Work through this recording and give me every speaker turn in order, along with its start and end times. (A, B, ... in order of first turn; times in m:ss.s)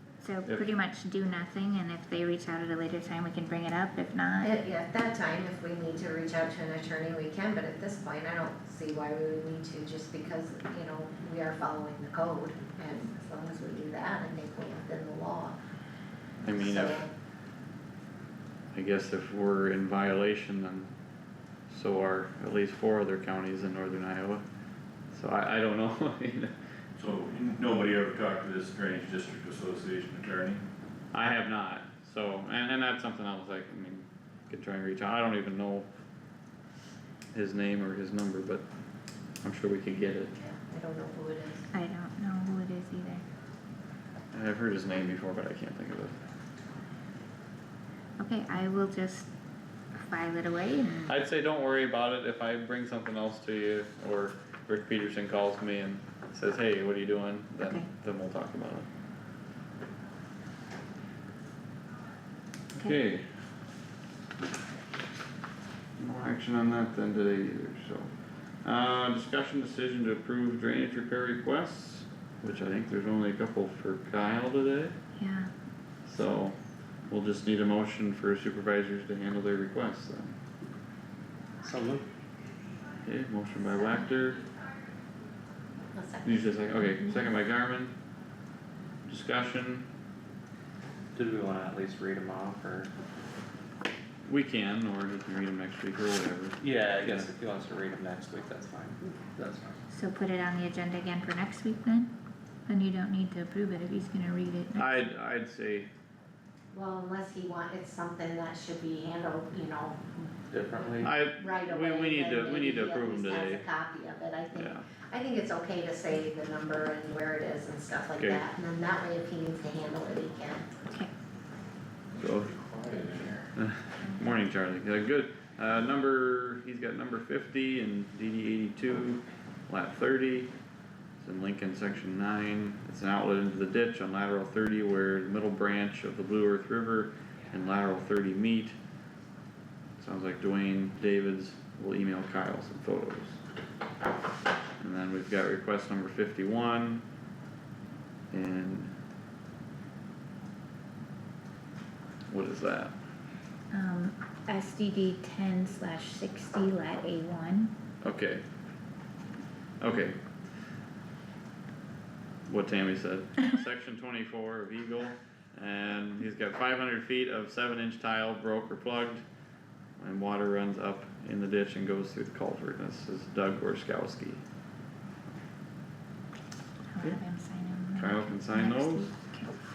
0:00.2-0:04.6 A
0:04.4-0:15.6 B
0:16.4-0:17.0 C
0:16.5-0:17.1 B
0:18.7-0:20.9 C
0:21.7-0:24.4 C
0:25.1-0:26.5 C
0:27.0-0:30.6 D
0:31.1-0:35.9 C
0:37.3-0:38.6 C
0:39.4-0:40.3 C
0:40.4-0:41.7 B
0:41.7-0:43.2 A
0:44.3-0:46.2 C
0:48.2-0:49.3 A
0:50.0-0:51.1 A
0:51.1-0:58.9 C
0:57.6-0:57.9 A
1:02.8-1:03.3 C
1:06.0-1:08.1 C
1:08.6-1:14.9 C
1:15.2-1:15.5 A
1:16.1-1:16.6 C
1:17.1-1:20.4 C
1:21.6-1:22.1 E
1:23.1-1:24.4 C
1:25.9-1:26.5 B
1:26.2-1:27.9 C
1:29.1-1:29.9 C
1:31.2-1:32.9 E
1:34.3-1:36.6 C
1:36.6-1:39.8 E
1:39.9-1:42.1 A
1:42.7-1:45.1 A
1:44.8-1:45.9 C
1:46.7-1:50.3 B
1:50.5-1:51.1 E
1:51.0-1:53.6 C
1:51.4-2:00.7 B
1:54.6-1:54.8 C
2:02.2-2:03.5 D
2:03.6-2:10.5 C
2:11.2-2:18.7 C
2:20.0-2:23.4 C
2:24.8-2:27.0 C
2:28.3-2:28.9 C
2:32.3-2:32.9 C
2:33.7-2:37.7 A
2:38.0-2:38.4 C
2:39.8-2:40.2 C
2:42.5-2:49.2 C
2:50.0-2:54.4 C
2:56.9-2:59.5 A
2:58.0-2:59.1 C